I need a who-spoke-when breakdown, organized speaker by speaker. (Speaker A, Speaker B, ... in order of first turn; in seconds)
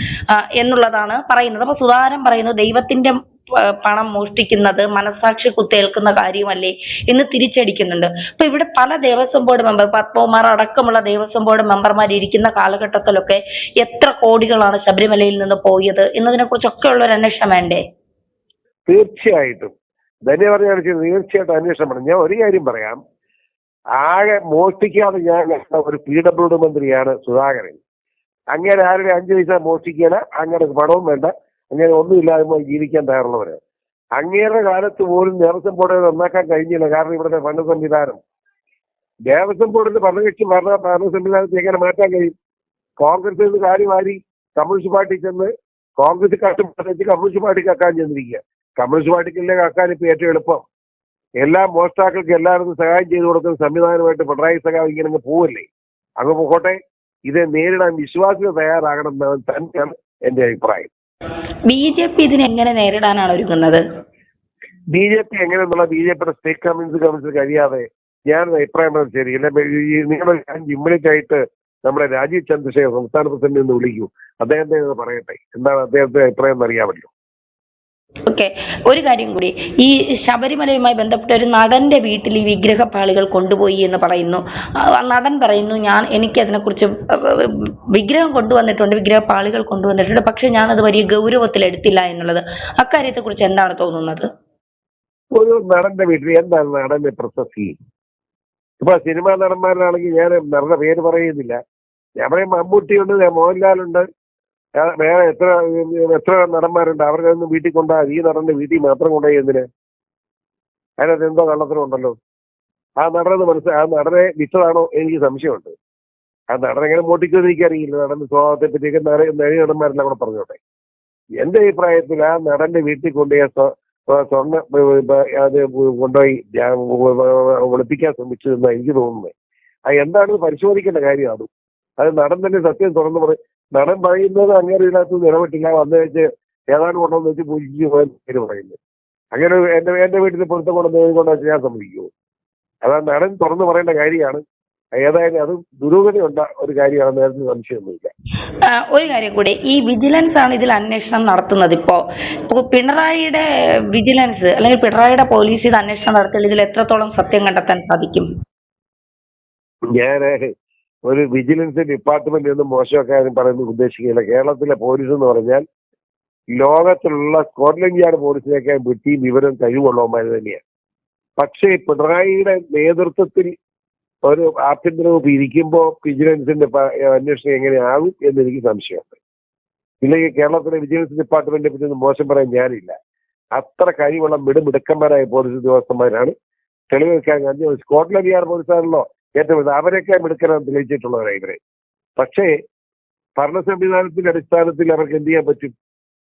Speaker A: 0.3-17.8, 61.7-63.8, 78.3-84.4, 84.9-94.2, 148.7-153.4, 153.9-158.3
Speaker B: 18.9-19.7, 20.2-23.0, 24.0-27.8, 28.5-33.6, 34.2-38.2, 39.3-42.3, 43.0-50.6, 51.4-55.6, 56.2-60.9, 64.9-77.1, 95.3-97.7, 98.8-101.6, 102.2-104.0, 104.8-109.7, 111.0-112.2, 113.0-115.7, 116.5-120.6, 121.4-129.3, 129.9-131.5, 132.0-138.8, 139.3-142.1, 142.8-144.4, 145.0-148.1, 159.9-160.5, 161.1-165.6, 166.6-170.6, 171.4-173.5, 174.2-179.2, 180.0-182.9, 183.6-186.3, 186.9-191.6, 192.2-192.5, 193.4-195.7